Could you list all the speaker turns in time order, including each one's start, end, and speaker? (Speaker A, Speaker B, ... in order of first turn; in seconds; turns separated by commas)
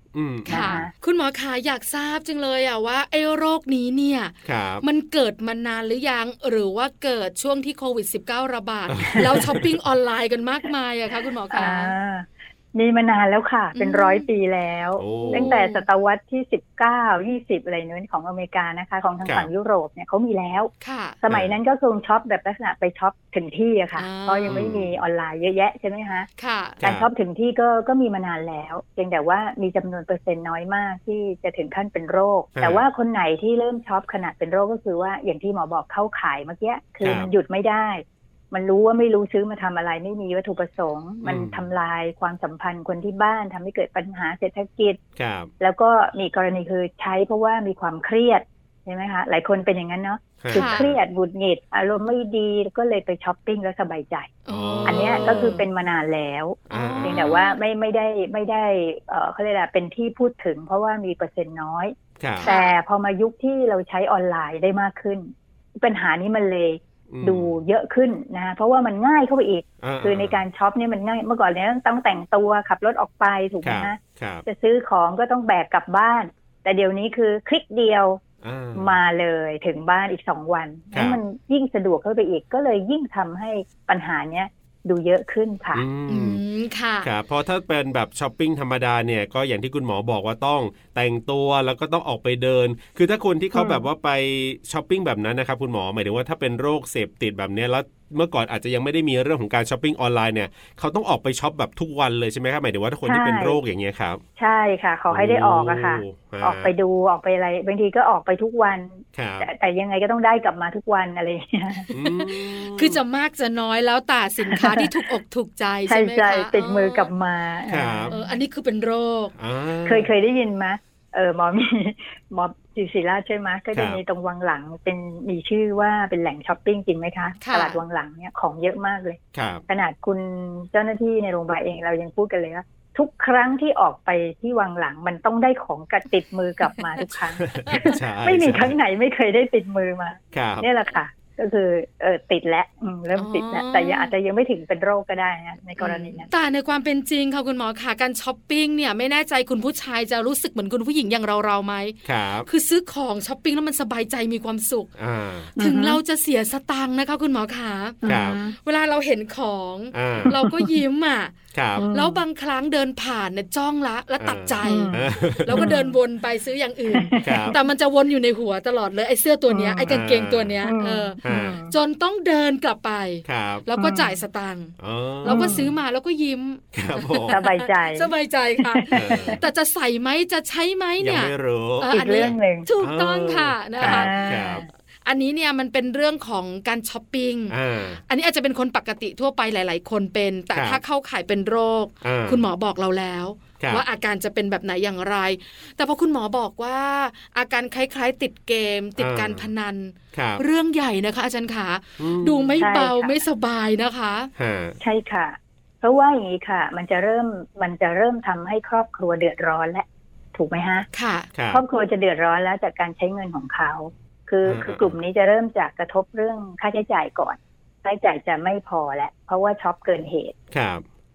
Speaker A: 0.1-0.9, Speaker B: 0.5-11.9, Speaker C: 0.5-0.9, Speaker A: 4.4-4.8, Speaker A: 8.9-9.8, Speaker C: 11.5-20.7, Speaker B: 13.7-14.2, Speaker A: 15.0-15.6, Speaker B: 15.2-15.8, Speaker B: 20.8-21.2, Speaker C: 21.2-26.3, Speaker B: 24.0-24.6, Speaker A: 24.5-24.9, Speaker B: 26.4-26.8, Speaker A: 26.8-27.1, Speaker C: 26.8-45.0, Speaker A: 32.5-32.8, Speaker A: 37.0-37.3, Speaker A: 41.2-41.7, Speaker A: 45.2-45.5, Speaker C: 45.6-54.3, Speaker A: 50.4-51.0, Speaker B: 50.5-50.9, Speaker B: 54.5-55.6, Speaker A: 54.5-55.6, Speaker C: 54.8-78.2, Speaker A: 56.7-57.4, Speaker B: 56.7-57.5, Speaker A: 62.2-62.5, Speaker B: 62.4-62.8, Speaker A: 67.1-67.5, Speaker A: 69.8-70.4, Speaker A: 73.6-74.4, Speaker A: 78.4-79.0, Speaker C: 78.8-85.8, Speaker A: 80.9-81.2, Speaker A: 85.7-86.4, Speaker B: 86.1-87.1, Speaker A: 87.0-104.2, Speaker C: 93.5-93.8, Speaker C: 103.0-103.6, Speaker C: 104.4-111.9, Speaker A: 105.1-106.7, Speaker A: 109.1-109.5, Speaker A: 111.9-113.0, Speaker B: 112.0-117.1, Speaker C: 114.5-114.9, Speaker C: 115.9-118.4, Speaker A: 117.7-118.1, Speaker B: 118.1-119.3, Speaker A: 119.3-120.1, Speaker C: 119.8-146.3, Speaker A: 123.7-124.0, Speaker B: 127.4-127.8, Speaker A: 129.3-129.6, Speaker A: 137.4-138.7, Speaker B: 137.7-137.9, Speaker A: 140.3-140.7, Speaker B: 143.1-144.1, Speaker B: 145.8-154.9, Speaker A: 152.0-152.5, Speaker A: 155.0-155.5, Speaker B: 155.6-161.4, Speaker C: 155.6-156.0, Speaker C: 158.0-158.5, Speaker A: 158.0-158.4, Speaker A: 159.9-160.3, Speaker C: 160.3-160.7, Speaker A: 161.5-161.8, Speaker C: 161.8-162.2, Speaker B: 161.9-184.2, Speaker A: 164.2-165.7, Speaker C: 164.6-165.9, Speaker C: 166.9-167.6, Speaker A: 167.2-167.6, Speaker C: 169.5-169.9, Speaker A: 169.9-170.6, Speaker C: 170.6-171.7, Speaker A: 171.2-171.6, Speaker A: 173.2-173.6, Speaker C: 173.8-174.2, Speaker A: 174.8-175.7, Speaker C: 175.2-175.7, Speaker A: 176.7-177.4, Speaker C: 177.3-179.4, Speaker A: 178.9-179.4, Speaker A: 181.0-181.9, Speaker C: 181.9-182.7, Speaker A: 182.8-184.6, Speaker C: 183.8-184.7, Speaker B: 185.0-187.6, Speaker A: 187.5-188.0, Speaker B: 188.1-204.3, Speaker A: 190.5-190.8, Speaker A: 192.0-192.4, Speaker A: 193.6-193.8, Speaker A: 199.0-199.5, Speaker A: 200.1-200.4, Speaker A: 202.0-202.7, Speaker C: 202.6-203.2, Speaker A: 204.4-204.8, Speaker C: 204.8-210.9, Speaker B: 210.9-211.3, Speaker A: 211.3-211.6, Speaker C: 211.5-220.3, Speaker A: 214.4-214.9, Speaker A: 220.5-220.8